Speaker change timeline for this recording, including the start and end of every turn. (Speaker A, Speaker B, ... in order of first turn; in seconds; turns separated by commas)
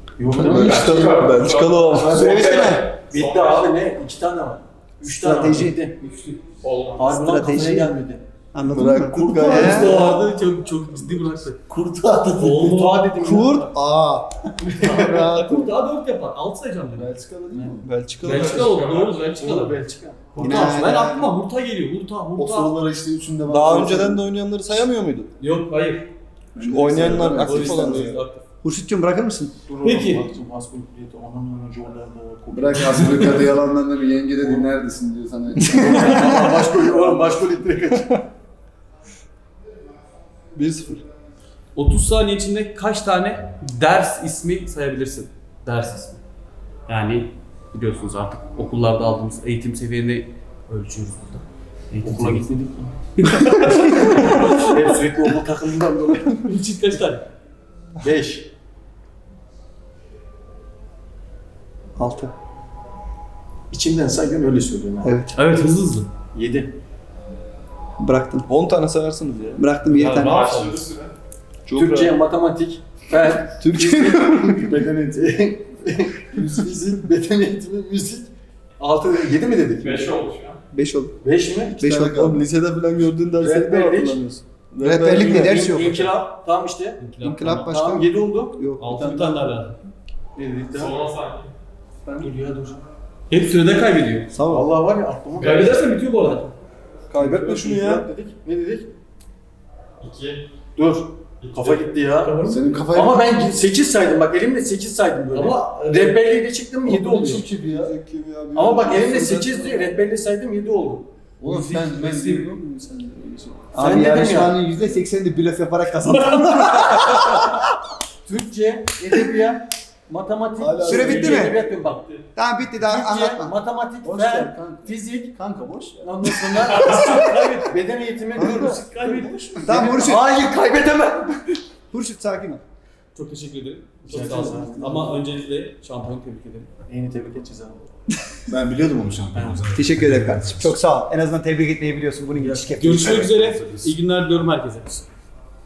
Speaker A: 0.2-1.0, Speaker B: 0.3-2.2, Speaker C: 0.3-1.3, Speaker D: 0.4-3.8, Speaker A: 2.1-6.0, Speaker E: 2.1-2.9, Speaker E: 5.1-5.8, Speaker F: 6.0-6.4, Speaker D: 6.6-7.2, Speaker A: 7.0-8.2, Speaker E: 7.1-7.9, Speaker E: 8.5-10.0, Speaker B: 8.6-10.0, Speaker A: 9.3-11.5, Speaker F: 9.3-11.5, Speaker C: 11.7-12.7, Speaker F: 12.3-13.1, Speaker A: 12.5-13.7, Speaker E: 13.2-15.7, Speaker A: 14.7-15.2, Speaker F: 14.7-17.1, Speaker C: 16.9-17.9, Speaker A: 17.5-20.8, Speaker B: 17.8-18.5, Speaker F: 18.2-19.8, Speaker D: 18.4-19.4, Speaker F: 20.3-22.8, Speaker E: 20.4-21.3, Speaker C: 22.4-24.2, Speaker B: 23.5-25.3, Speaker F: 25.4-26.1, Speaker C: 26.5-28.2, Speaker B: 26.6-28.2, Speaker F: 27.3-28.4, Speaker E: 28.6-29.5, Speaker A: 29.6-33.5, Speaker F: 29.8-30.3, Speaker C: 32.5-36.2, Speaker A: 35.7-38.1, Speaker B: 40.5-41.0, Speaker F: 41.7-46.2, Speaker F: 46.9-52.5, Speaker A: 52.0-53.0, Speaker F: 53.2-54.7, Speaker A: 54.2-56.4, Speaker F: 56.4-57.2, Speaker A: 58.0-58.5, Speaker E: 62.0-62.3, Speaker A: 63.7-65.1, Speaker E: 65.0-65.3, Speaker F: 65.3-66.1, Speaker A: 66.3-66.7, Speaker E: 68.0-68.5, Speaker B: 68.5-69.6, Speaker E: 69.6-70.5, Speaker F: 69.8-70.9, Speaker D: 70.0-71.1, Speaker B: 71.7-72.1, Speaker A: 71.7-80.1, Speaker E: 73.6-74.7, Speaker D: 79.8-80.6, Speaker E: 80.7-81.1, Speaker A: 81.2-81.8, Speaker E: 81.8-82.4, Speaker B: 81.8-85.9, Speaker A: 83.4-84.2, Speaker E: 84.8-86.0, Speaker A: 85.2-87.0, Speaker F: 87.0-87.9, Speaker E: 87.2-88.8, Speaker A: 87.7-89.4, Speaker F: 88.8-89.8, Speaker A: 90.3-91.0, Speaker D: 90.7-91.5, Speaker A: 92.2-92.8, Speaker F: 93.3-94.3, Speaker E: 94.3-94.6, Speaker A: 94.5-95.8, Speaker F: 95.4-96.5, Speaker B: 97.1-98.1, Speaker A: 97.2-98.9, Speaker D: 100.0-100.4, Speaker A: 100.8-102.3, Speaker D: 101.4-102.0, Speaker F: 102.2-102.8, Speaker C: 102.4-103.2, Speaker A: 102.9-107.4, Speaker F: 105.3-106.2, Speaker C: 106.8-107.9, Speaker B: 107.7-109.9, Speaker A: 108.5-111.1, Speaker C: 111.4-113.8, Speaker F: 111.5-112.5, Speaker E: 113.7-117.4, Speaker A: 113.8-114.7, Speaker C: 114.8-115.0, Speaker A: 118.2-122.2, Speaker C: 120.6-121.4, Speaker E: 120.8-121.6, Speaker D: 121.1-122.1, Speaker E: 122.3-123.5, Speaker A: 122.8-125.3, Speaker C: 124.0-126.7, Speaker A: 126.0-131.0, Speaker F: 126.8-127.6, Speaker C: 128.3-129.9, Speaker E: 129.6-131.4, Speaker E: 131.9-132.6, Speaker F: 133.1-136.7, Speaker A: 134.1-135.2, Speaker A: 136.9-137.8, Speaker C: 138.5-139.8, Speaker A: 139.3-139.7, Speaker E: 139.7-143.3, Speaker B: 140.0-140.7, Speaker A: 142.4-143.9, Speaker F: 142.8-145.1